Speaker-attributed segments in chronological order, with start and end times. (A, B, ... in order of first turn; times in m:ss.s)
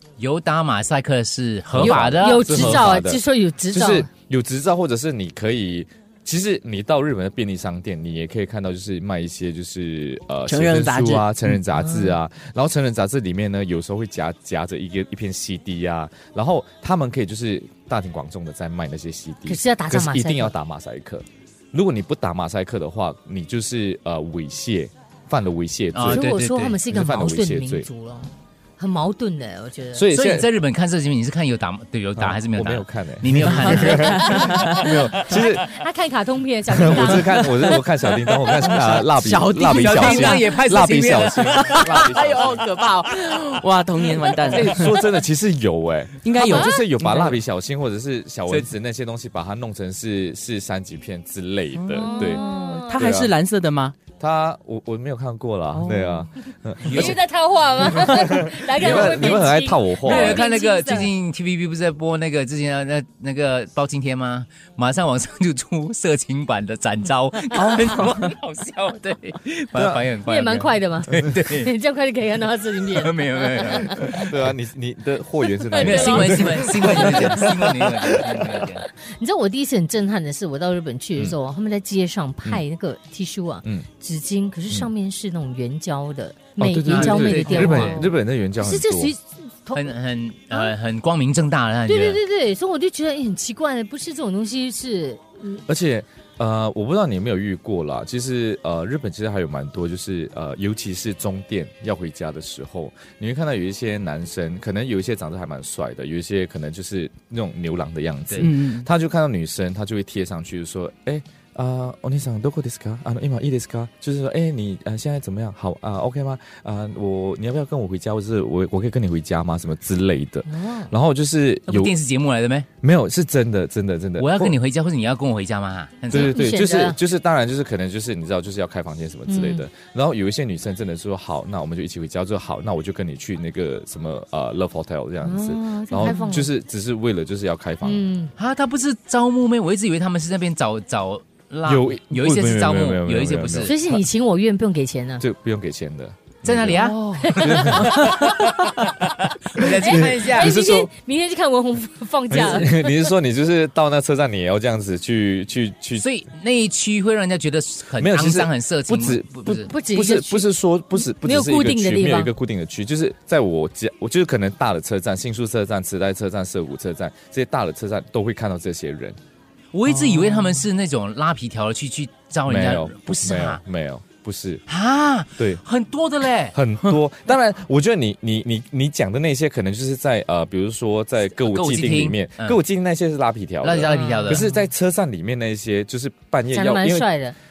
0:00.2-0:02.8 A
0:01.7-0:26.3 B
0:01.8-0:04.1 C
0:10.5-0:11.3 D
0:11.8-0:12.2 C
0:19.5-0:20.5 C
0:25.9-0:26.8 A
0:26.0-0:30.1 C
0:26.9-0:27.9 B
0:29.9-0:30.5 B
0:30.0-0:34.9 A
0:32.2-0:35.7 B
0:33.4-0:35.0 D
0:34.3-0:37.8 C
0:36.7-0:42.6 B
0:38.8-0:45.0 D
0:39.7-0:41.9 A
0:44.4-0:53.3 B
0:44.5-0:44.8 A
0:46.2-0:47.4 D
0:46.5-0:46.8 C
0:51.7-0:54.0 D
0:52.0-0:53.1 C
0:54.2-0:57.2 B
0:55.7-0:56.3 D
0:56.8-0:57.2 A
0:56.9-1:01.1 C
0:57.9-1:00.4 B
0:58.8-0:59.4 A
1:00.0-1:11.7 A
1:07.5-1:08.1 B
1:09.8-1:10.0 B
1:10.2-1:14.3 C
1:12.9-1:14.0 A
1:14.1-1:18.7 B
1:15.5-1:17.6 C
1:15.8-1:18.9 A
1:19.1-1:29.9 C
1:26.6-1:29.1 B
1:26.9-1:28.0 A
1:29.8-1:32.2 A
1:31.9-1:35.6 C
1:35.7-2:01.9 B
1:48.4-1:48.9 D
2:00.5-2:00.9 C
2:01.7-2:02.7 A
2:02.8-2:04.6 B
2:04.2-2:06.3 A
2:06.1-2:18.0 B
2:06.1-2:07.0 C
2:09.3-2:09.6 C
2:15.2-2:16.5 C
2:17.8-2:18.3 C
2:18.4-2:23.7 A
2:21.6-2:24.0 B
2:23.6-2:25.2 C
2:25.2-2:26.9 B
2:26.4-2:30.5 A
2:26.8-2:27.2 D
2:27.2-2:28.0 C
2:27.4-2:28.5 B
2:29.6-2:30.9 B
2:29.8-2:33.1 C
2:32.3-2:36.1 B
2:36.0-2:39.7 A
2:38.0-2:49.2 B
2:39.7-2:42.3 C
2:49.7-2:53.6 A
2:49.9-2:50.6 D
2:52.5-2:54.6 B
2:54.7-2:56.6 A
2:55.4-2:55.6 B
2:56.5-3:07.1 B
3:01.4-3:02.6 A
3:03.6-3:04.5 A
3:03.9-3:04.5 C
3:06.5-3:07.4 C